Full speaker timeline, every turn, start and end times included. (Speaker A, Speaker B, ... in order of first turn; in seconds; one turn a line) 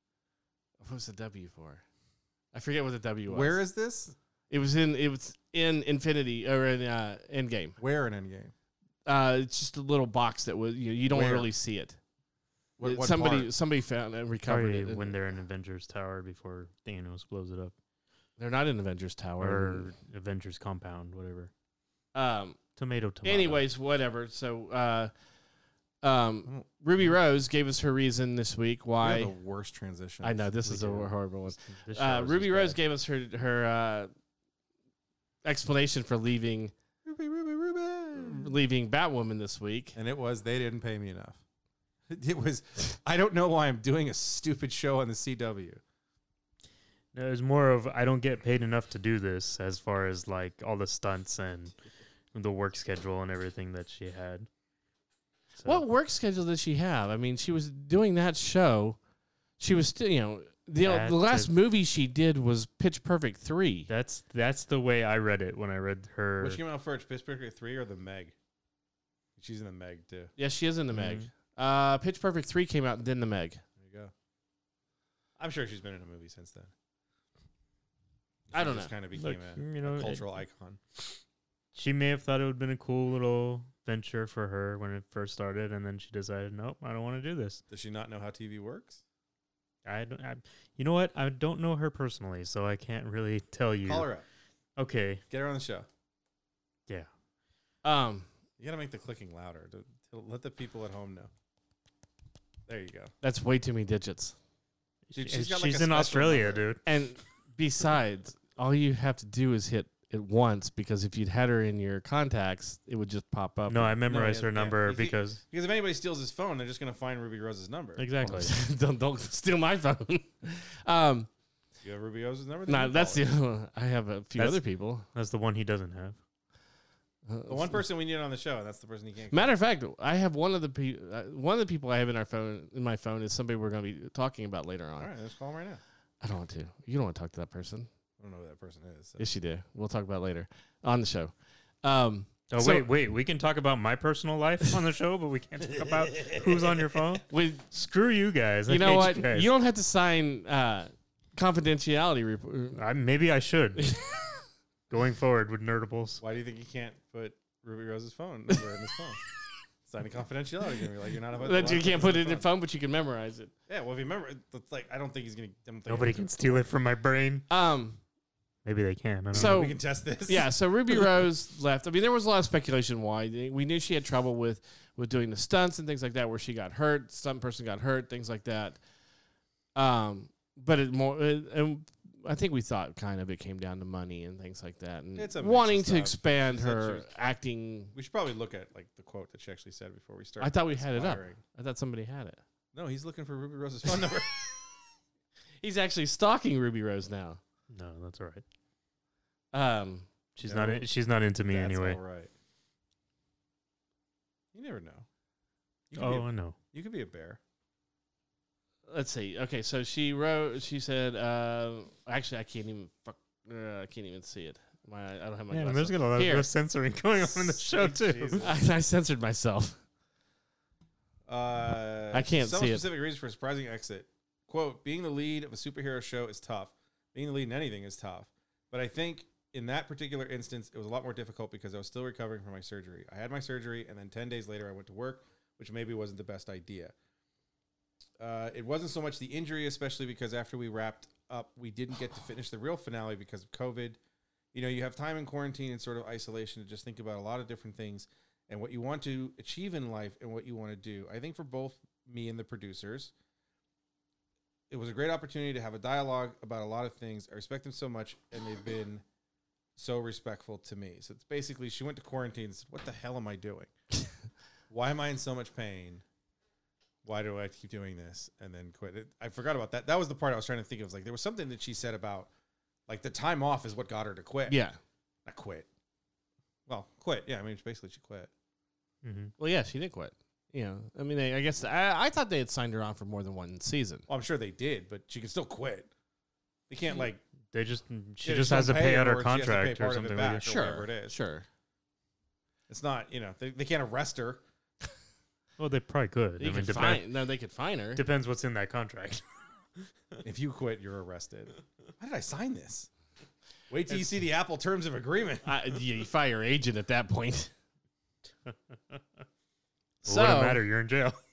Speaker A: 0.8-1.8
Speaker A: 2.5-3.6
Speaker B: 3.3-4.1
Speaker A: 4.5-7.8
Speaker B: 7.8-8.5
Speaker A: 9.1-12.0
Speaker B: 11.1-11.5
Speaker B: 12.8-13.5
Speaker A: 12.8-15.1
Speaker C: 14.5-17.7
Speaker A: 18.4-19.9
Speaker C: 19.4-21.5
Speaker A: 22.1-22.6
Speaker C: 22.8-23.6
Speaker A: 23.2-25.1
Speaker A: 26.0-29.3
Speaker B: 29.0-30.4
Speaker A: 30.2-34.1
Speaker C: 30.6-32.8
Speaker A: 35.5-36.7
Speaker B: 37.0-38.5
Speaker A: 38.1-40.0
Speaker B: 40.0-41.4
Speaker B: 42.1-45.8
Speaker C: 47.1-51.7
Speaker C: 52.3-54.5
Speaker A: 55.6-59.0
Speaker A: 59.6-63.9
Speaker C: 60.8-61.5
Speaker C: 63.9-66.6
Speaker B: 66.4-68.3
Speaker B: 69.4-70.3
Speaker A: 70.4-73.6
Speaker C: 70.9-71.3
Speaker B: 73.8-74.1
Speaker B: 75.4-76.7
Speaker B: 78.5-80.8
Speaker A: 78.5-78.9
Speaker C: 79.1-80.2
Speaker C: 81.7-87.6
Speaker B: 87.7-89.0
Speaker C: 89.8-94.1
Speaker B: 93.8-94.2
Speaker C: 94.8-95.2
Speaker B: 95.3-95.9
Speaker A: 97.8-98.3
Speaker B: 98.6-101.3
Speaker B: 102.7-103.1
Speaker A: 103.2-104.4
Speaker C: 105.1-106.8
Speaker B: 105.1-106.7
Speaker A: 106.9-114.0
Speaker C: 113.7-115.4
Speaker B: 114.1-118.0
Speaker C: 118.0-118.5
Speaker A: 118.2-121.3
Speaker B: 121.8-123.3
Speaker A: 122.7-125.0
Speaker C: 124.4-124.6
Speaker C: 125.1-126.2
Speaker A: 127.3-127.8
Speaker B: 127.5-129.5
Speaker A: 129.3-135.1
Speaker B: 135.0-135.8
Speaker A: 136.2-137.9
Speaker B: 138.2-139.2
Speaker A: 139.2-142.9
Speaker C: 142.5-149.5
Speaker B: 145.8-146.9
Speaker A: 147.3-147.6
Speaker A: 148.7-152.8
Speaker C: 152.8-154.0
Speaker A: 153.8-154.2
Speaker C: 154.9-156.2
Speaker B: 156.2-159.2
Speaker B: 159.8-162.4
Speaker A: 161.3-163.5
Speaker B: 163.7-166.6
Speaker C: 165.9-167.5
Speaker A: 167.5-168.0
Speaker C: 168.6-169.6
Speaker B: 169.3-170.5
Speaker A: 169.3-178.8
Speaker A: 179.8-187.9
Speaker B: 185.2-187.1
Speaker B: 187.9-191.4
Speaker A: 190.4-192.4
Speaker B: 192.7-194.5
Speaker A: 195.6-197.4
Speaker C: 197.7-198.4
Speaker A: 199.5-200.1
Speaker C: 200.4-202.0
Speaker B: 200.4-200.9
Speaker B: 201.5-202.3
Speaker B: 204.5-205.1
Speaker B: 205.9-207.4
Speaker C: 205.9-206.6
Speaker A: 208.9-216.5
Speaker C: 215.5-218.4
Speaker B: 217.2-218.6
Speaker A: 218.4-219.8
Speaker B: 221.3-236.9
Speaker A: 222.1-222.9
Speaker B: 238.2-244.0
Speaker B: 244.5-253.1
Speaker B: 254.7-259.0
Speaker B: 259.8-263.7
Speaker B: 264.7-266.0
Speaker B: 267.0-272.3
Speaker B: 272.9-274.6
Speaker A: 274.5-274.8
Speaker B: 275.3-275.7
Speaker B: 276.7-278.3
Speaker C: 279.0-279.3
Speaker A: 279.4-284.1
Speaker B: 284.1-285.9
Speaker B: 286.7-287.2
Speaker C: 287.5-290.5
Speaker B: 288.2-291.1
Speaker A: 290.4-291.4
Speaker B: 292.7-294.4
Speaker C: 295.6-297.1
Speaker A: 296.4-298.0
Speaker C: 297.9-299.2
Speaker B: 300.2-302.9
Speaker B: 303.7-305.5
Speaker A: 305.4-307.5
Speaker A: 310.1-310.6
Speaker C: 310.1-311.2